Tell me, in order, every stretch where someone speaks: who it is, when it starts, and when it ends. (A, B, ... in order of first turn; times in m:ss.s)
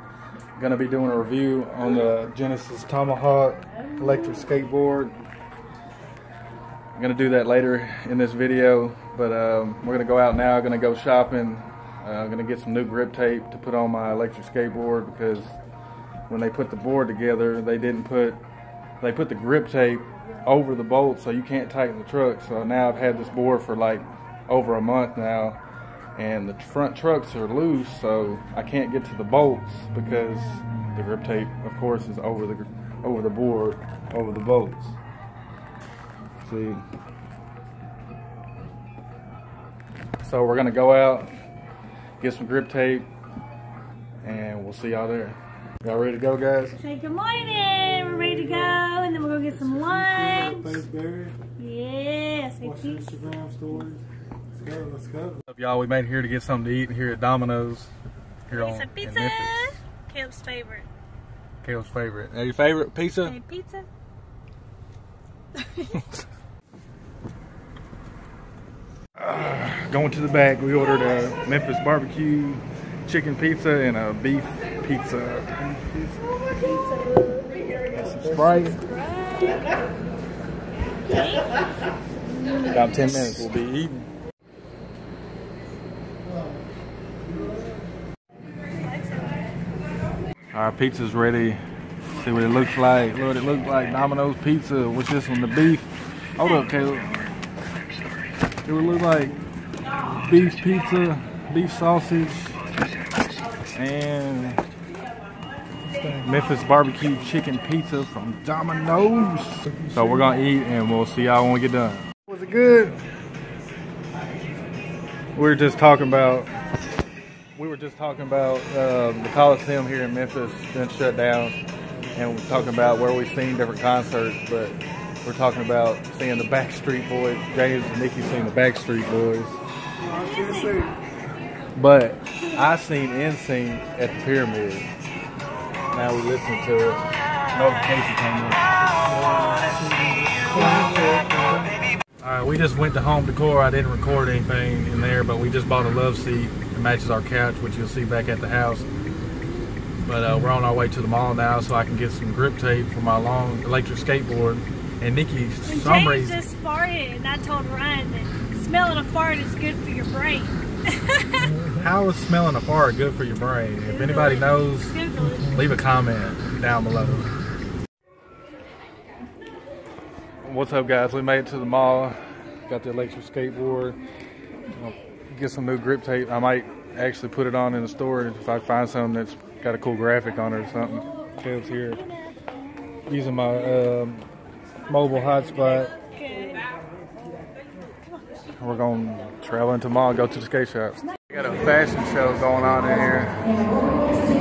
0:00.6-0:05.1 A
0:06.9-0:15.6 A
0:16.3-0:18.4 A
0:19.0-0:25.6 A
0:26.1-0:35.0 A
0:36.4-0:36.8 A
0:40.2-0:41.3 A
0:42.2-0:43.1 A
0:44.2-0:46.8 A
0:46.8-0:50.8 B
0:49.9-0:51.4 C
0:51.6-0:53.4 B
0:52.8-0:54.0 C
0:54.6-0:55.4 C
0:55.4-0:57.9 A
0:58.4-0:59.7 A
0:58.5-1:00.9 B
1:01.6-1:03.4 A
1:03.2-1:03.9 B
1:05.5-1:06.1 B
1:09.2-1:16.2 A
1:17.9-1:18.8 A
1:18.8-1:19.6 B
1:21.1-1:21.5 B
1:22.6-1:24.1 A
1:28.8-1:29.4 B
1:30.5-1:31.6 A
1:32.1-1:37.2 A
1:38.6-1:39.4 A
1:40.2-1:42.6 A
1:43.7-1:44.6 A
1:46.2-1:53.0 A
1:55.3-1:56.5 A
1:57.5-2:01.6 A
2:02.1-2:09.6 A
2:10.2-2:10.9 C
2:11.7-2:14.9 A
2:15.9-2:18.6 A
2:19.5-2:21.7 C
2:22.2-2:28.9 A
2:30.0-2:36.4 A
2:35.6-2:41.6 B
2:41.6-2:47.3 A
2:43.8-2:45.6 B
2:50.4-2:54.0 A
2:54.7-3:02.0 A
3:03.1-3:04.2 A
3:04.9-3:05.9 A
3:06.0-3:06.6 B
3:08.6-3:13.5 A